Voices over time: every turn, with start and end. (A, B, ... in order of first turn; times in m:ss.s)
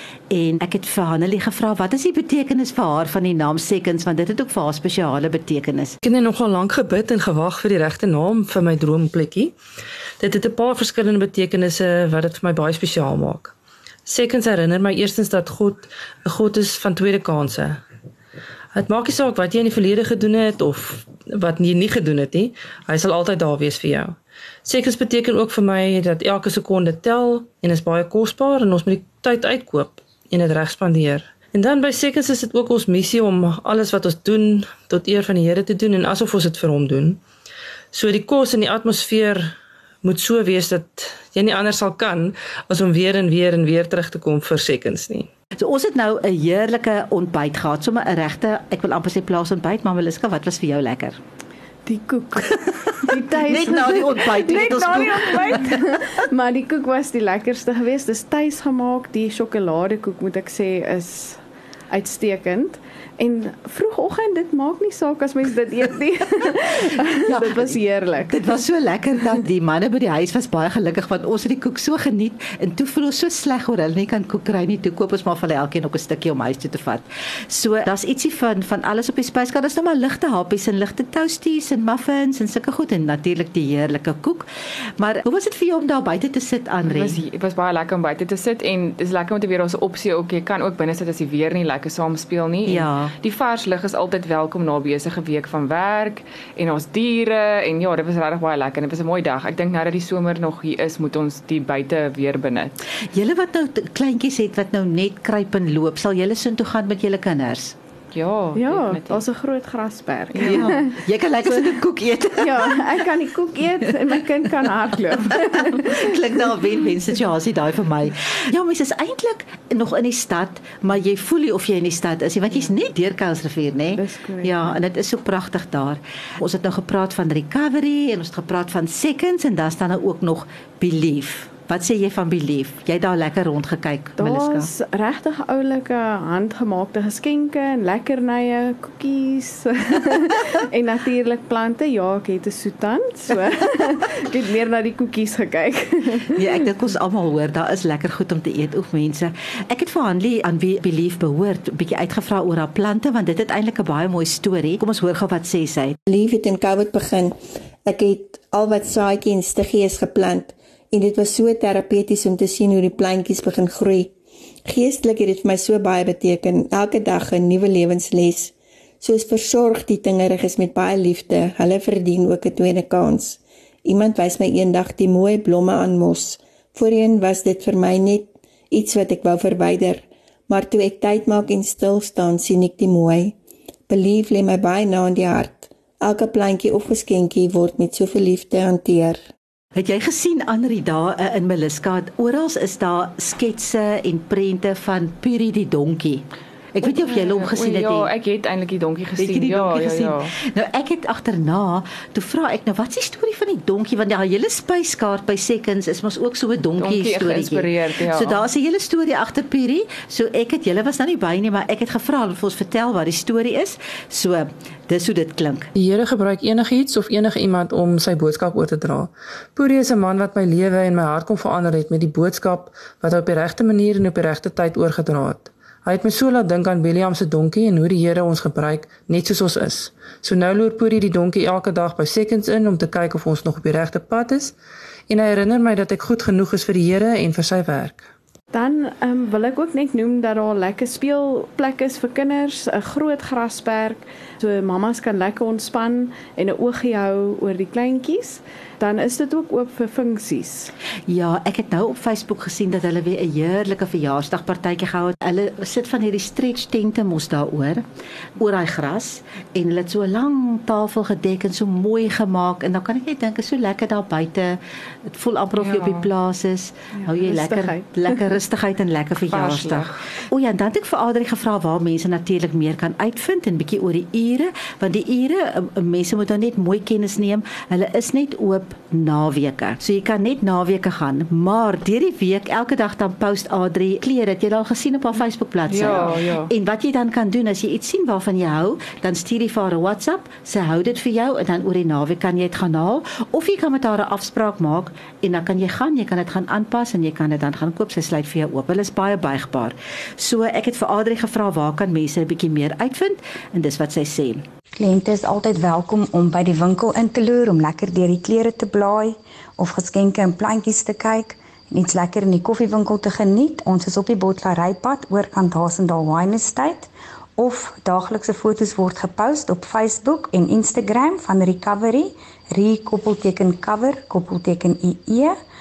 0:00.3-0:05.9 A
0:06.0-0:09.5 B
0:10.2-0:13.5 B
0:14.0-0:17.8 B
0:18.7-0:37.2 B
0:37.9-0:45.3 B
0:45.6-0:51.2 A
0:51.8-1:08.3 C
0:53.4-0:55.7 A
1:07.2-1:24.4 A
1:25.0-1:27.2 A
1:26.8-1:42.8 D
1:32.6-1:33.1 A
1:43.1-1:47.7 A
1:48.1-1:49.2 D
1:48.6-1:51.0 C
1:50.3-1:50.8 D
1:50.4-1:53.0 A
1:52.4-1:56.1 C
1:55.3-2:14.7 A
2:03.9-2:04.8 C
2:14.2-2:26.6 C
2:26.3-2:36.0 A
2:36.1-2:44.1 E
2:44.6-3:03.4 E
3:03.9-3:09.2 E
3:09.8-3:18.1 A
3:16.8-3:20.3 D
3:19.2-3:35.7 A
3:26.8-3:28.5 D
3:35.8-3:54.5 B
3:55.1-3:58.0 B
3:58.5-4:10.7 C
4:11.1-4:17.8 A
4:18.4-5:04.4 A
4:25.6-4:26.1 D
4:27.0-4:28.3 C
4:29.3-4:30.1 D
4:45.7-4:46.5 D
5:04.8-5:25.3 F